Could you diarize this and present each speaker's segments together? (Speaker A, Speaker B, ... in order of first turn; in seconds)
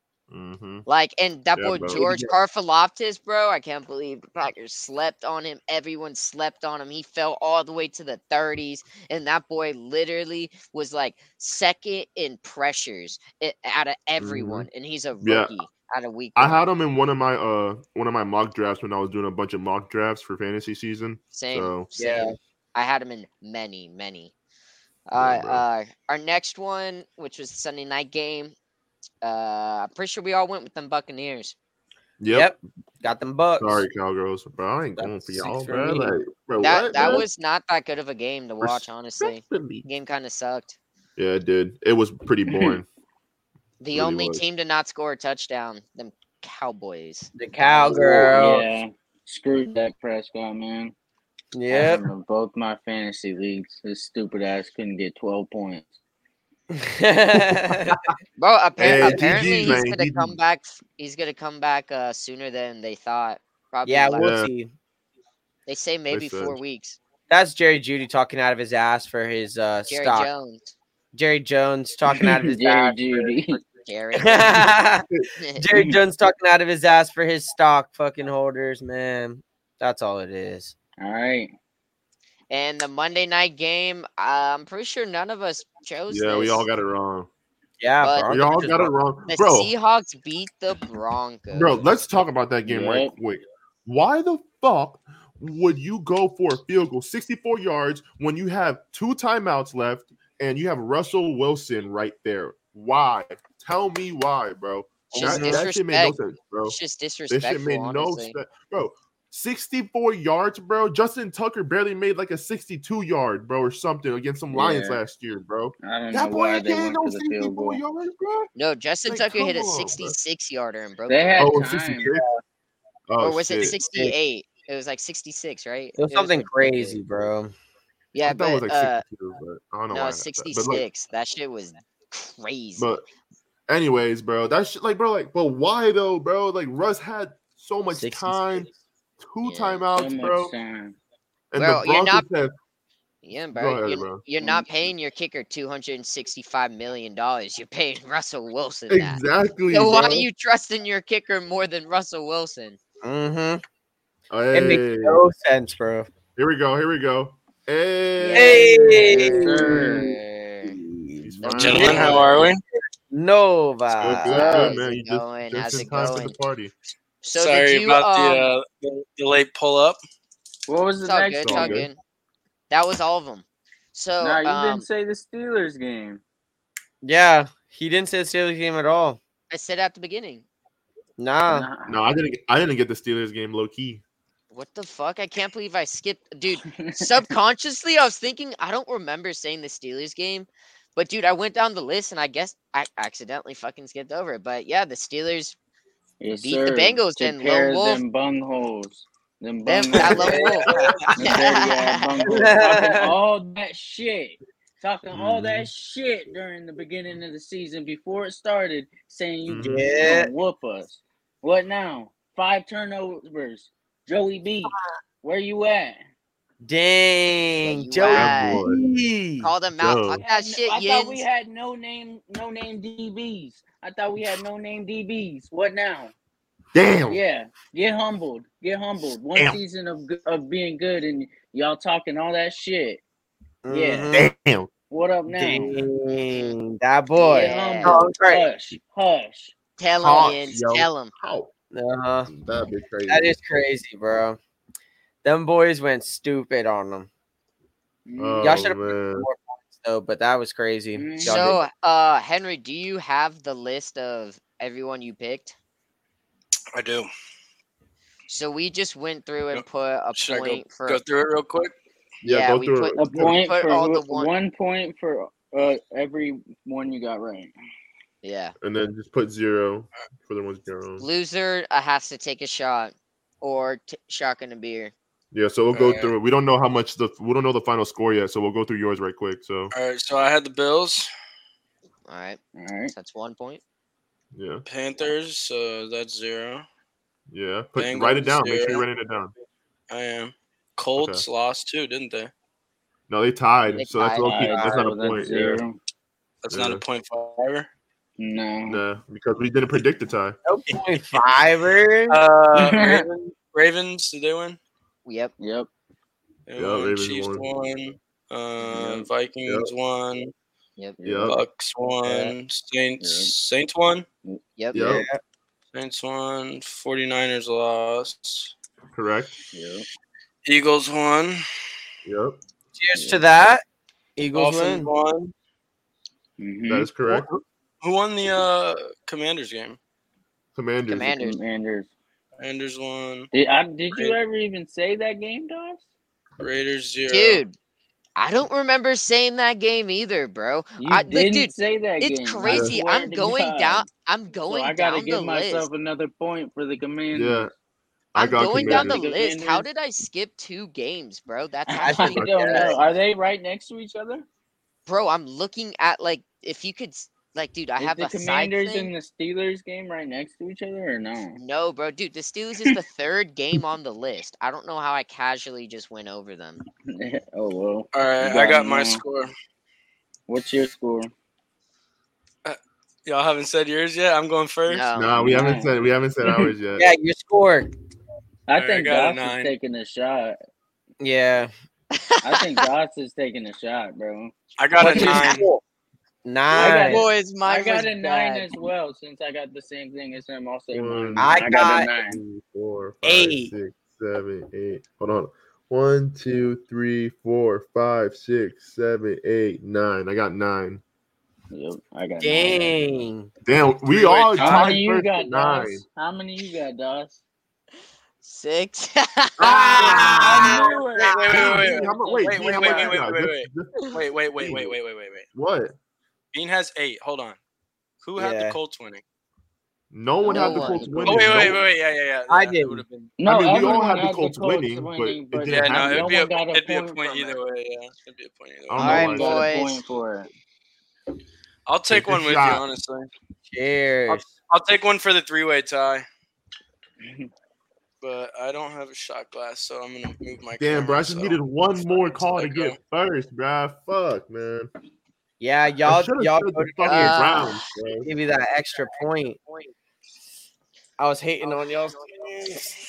Speaker A: 0.3-0.9, 1.6-2.0, 14.2-14.7, 15.2-15.5, 16.4-21.9, 25.1-25.6, 32.2-32.5, 33.6-37.3, 38.6-39.9, 41.2-42.9, 43.9-44.4, 58.8-60.4, 64.2-64.5, 66.1-66.6, 86.1-87.3, 88.3-89.7, 91.5-106.8, 107.3-118.5, 119.1-120.2, 121.4-122.2, 123.1-123.8, 128.2-130.8, 132.8-133.0, 133.7-140.5, 141.5-142.5, 143.6-144.2, 148.9-150.3, 154.3-155.2, 156.4-160.0, 161.2-162.5, 164.0-166.7, 171.4-171.9, 181.9-184.0, 205.1-205.7, 209.5-209.8, 218.1-218.8, 219.8-220.2, 226.8-227.2, 229.3-229.6, 234.1-234.7, 235.3-235.8, 240.0-241.5, 242.3-243.3, 248.2-249.3, 262.2-263.4, 268.6-271.1, 275.3-279.7, 284.4-284.6, 287.3-289.3, 291.0-291.2, 293.1-295.6, 296.5-296.8, 298.7-300.4, 306.6-307.4, 309.5-309.7, 311.0-311.4, 314.7-315.1, 318.9-319.4, 322.1-322.4, 326.7-327.3, 330.6-331.2, 342.4-342.7, 347.1-347.5, 348.1-349.0, 352.1-352.9, 374.9-376.9, 390.7-400.8, 403.5-405.8, 409.4-410.5, 411.3-414.8, 415.3-415.7, 419.9-421.6, 423.3-426.1, 428.7-429.5, 431.9-432.6, 440.6-444.7, 445.9-448.1
Speaker B: 0.9-16.6, 21.3-24.3, 25.1-28.6, 29.2-31.6, 36.6-40.8, 43.8-48.4, 58.4-64.3, 65.7-67.0, 69.9-70.7, 73.8-74.7, 75.4-75.6, 82.5-86.7, 88.0-91.9, 105.1-108.3, 118.6-121.6, 123.2-127.0, 128.1-129.0, 129.9-133.0, 139.4-139.9, 141.6-142.2, 143.2-152.8, 158.2-158.8, 159.7-160.8, 161.4-162.4, 164.1-166.3, 167.2-168.5, 171.1-172.0, 172.7-174.8, 179.5-180.4, 184.5-195.6, 196.3-198.0, 199.7-202.2, 217.6-218.7, 219.4-221.2, 237.2-238.0, 239.8-241.1, 251.2-255.6, 258.3-261.0, 262.2-264.3, 268.2-268.6, 271.0-274.9, 282.1-282.4, 282.9-283.6, 293.8-294.5, 305.1-305.3, 330.9-331.4, 337.1-337.6, 338.2-345.7, 348.2-352.8, 354.9-358.9, 361.4-366.6, 374.7-375.4, 381.9-382.6, 384.8-385.5, 386.5-388.7, 408.2-411.4, 420.2-421.5, 428.9-429.8, 446.8-447.6
Speaker C: 1.9-2.3, 22.0-22.4, 32.3-33.9, 35.0-36.2, 47.4-48.7, 51.5-52.0, 56.7-58.0, 58.9-59.8, 63.9-64.7, 67.3-70.3, 71.1-73.4, 74.2-80.7, 87.8-88.9, 105.2-105.7, 122.1-122.4, 123.8-124.2, 126.0-127.5, 137.9-138.4, 153.0-153.6, 154.5-156.1, 158.4-159.9, 160.9-161.9, 163.1-164.8, 177.0-179.2, 181.2-181.7, 200.0-201.3, 202.3-203.1, 209.6-210.3, 216.6-219.5, 233.7-234.3, 235.4-238.4, 241.7-242.3, 243.1-244.4, 245.2-247.1, 248.4-251.6, 300.5-302.2, 314.8-315.2, 322.8-323.6, 324.2-324.9, 351.8-352.2, 376.8-377.7, 381.0-381.5, 384.8-385.6, 386.2-387.1, 391.2-391.9, 393.0-393.5, 402.2-403.3, 409.4-410.7, 418.2-418.6, 422.3-422.9, 428.8-429.1, 433.5-434.2, 445.4-447.4, 448.0-449.4, 451.0-452.7
Speaker D: 42.5-42.8, 47.9-50.9, 51.7-56.0, 72.1-73.6, 81.0-81.5, 92.7-93.1, 114.5-115.0, 115.8-117.8, 121.1-122.1, 139.9-141.0, 159.1-160.1, 170.7-171.8, 174.2-176.2, 181.5-182.0, 186.8-187.2, 196.2-200.6, 201.2-216.0, 220.2-226.1, 227.1-233.0, 233.7-234.2, 234.9-235.8, 237.3-239.5, 248.1-248.7, 251.0-251.5, 263.0-267.5, 282.6-282.9, 294.2-295.8, 298.2-298.8, 302.5-303.1, 305.4-305.7, 308.6-309.1, 311.0-311.4, 313.0-313.3, 314.3-314.9, 319.5-319.9, 323.0-323.2, 326.4-326.9, 331.1-331.9, 333.3-335.8, 340.8-343.9, 344.5-347.5, 348.4-349.7, 351.7-354.2, 357.8-361.4, 366.9-369.0, 370.3-371.1, 375.2-376.5, 378.5-380.4, 382.2-384.3, 386.5-392.2, 401.5-402.9, 404.4-407.2, 409.9-413.0, 420.3-420.8, 423.2-427.4, 428.9-430.3, 437.0-437.3
Speaker E: 161.6-162.6, 167.3-170.0, 256.8-257.1, 259.5-261.7, 275.7-276.1, 279.7-281.1, 284.7-286.7, 287.8-288.8, 289.9-292.3, 296.4-297.7, 302.1-304.6, 306.5-310.3, 311.2-314.1, 315.7-318.5, 320.5-321.4, 324.3-325.3, 327.8-329.8, 332.4-333.3, 336.4-337.4, 367.9-369.3, 372.4-374.9, 378.6-379.5, 384.6-385.5, 403.9-404.8, 411.0-415.3, 416.3-417.4, 418.0-419.0, 421.0-423.8, 425.5-429.1, 431.7-433.1, 434.1-436.1, 438.0-441.4, 442.1-442.8